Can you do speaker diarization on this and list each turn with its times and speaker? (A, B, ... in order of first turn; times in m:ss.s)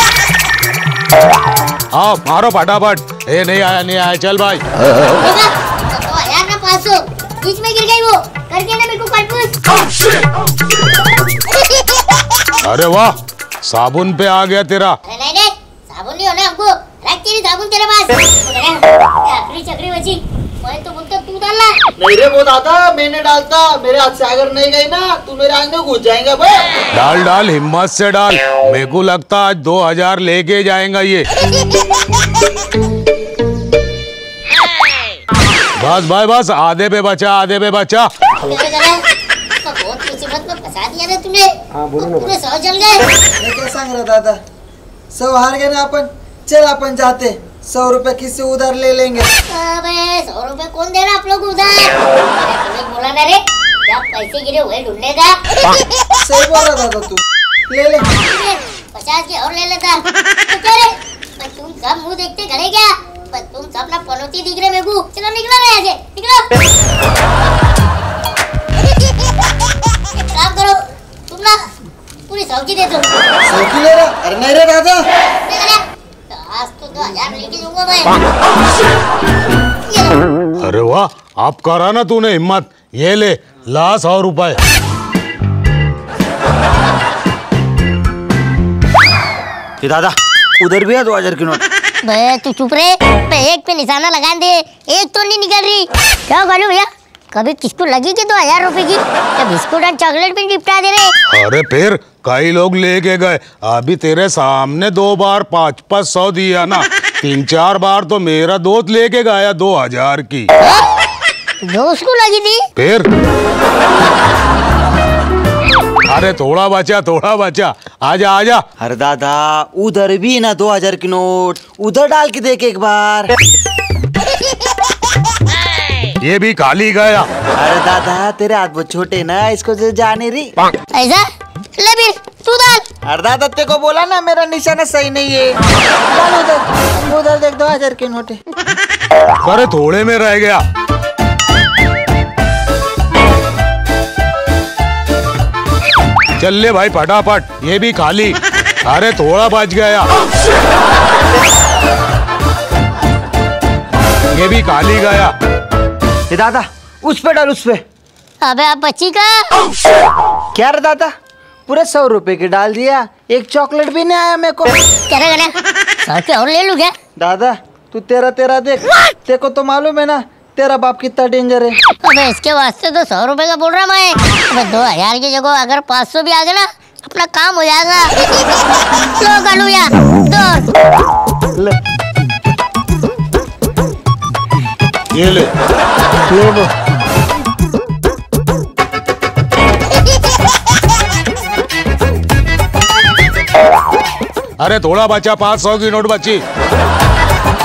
0:01.9-0:04.6 A
0:05.2-0:09.5 B
0:12.6-0:13.1 A
0:13.6-0:14.9 A
0:15.0-0:21.7 B
0:22.0-0:26.7 C
0:26.9-0:31.3 A
0:35.8-0:38.1 A
0:38.4-0:39.0 B
0:39.6-0:43.0 B
0:43.4-0:44.4 C
0:45.1-0:49.3 C
0:49.5-0:55.4 B
0:56.2-0:58.1 C
0:58.1-1:06.5 B
1:10.1-1:10.8 B
1:11.3-1:11.6 B
1:12.3-1:13.1 B
1:13.4-1:15.0 C
1:15.4-1:18.2 B
1:19.9-1:20.2 B
1:20.6-1:24.6 A
1:29.8-1:31.6 C
1:32.0-1:41.1 B
1:41.3-1:50.5 A
1:50.6-1:50.8 B
1:51.6-1:52.6 B
1:52.8-1:53.1 A
1:56.1-1:58.6 A
1:58.8-2:03.3 C
2:06.2-2:07.3 A
2:07.6-2:10.5 C
2:10.9-2:11.2 B
2:11.8-2:12.8 B
2:13.0-2:15.5 C
2:16.1-2:18.4 C
2:19.4-2:20.6 A
2:26.4-2:30.1 A
2:34.3-2:35.3 A
2:36.3-2:37.8 C
2:38.4-2:39.4 B
2:40.5-2:41.1 C
2:41.7-2:44.7 C
2:45.1-2:46.9 B
2:47.2-2:51.8 C
2:52.0-2:58.1 B
2:59.2-3:00.6 B
3:05.1-3:05.5 A
3:06.3-3:06.7 C
3:14.6-3:16.4 A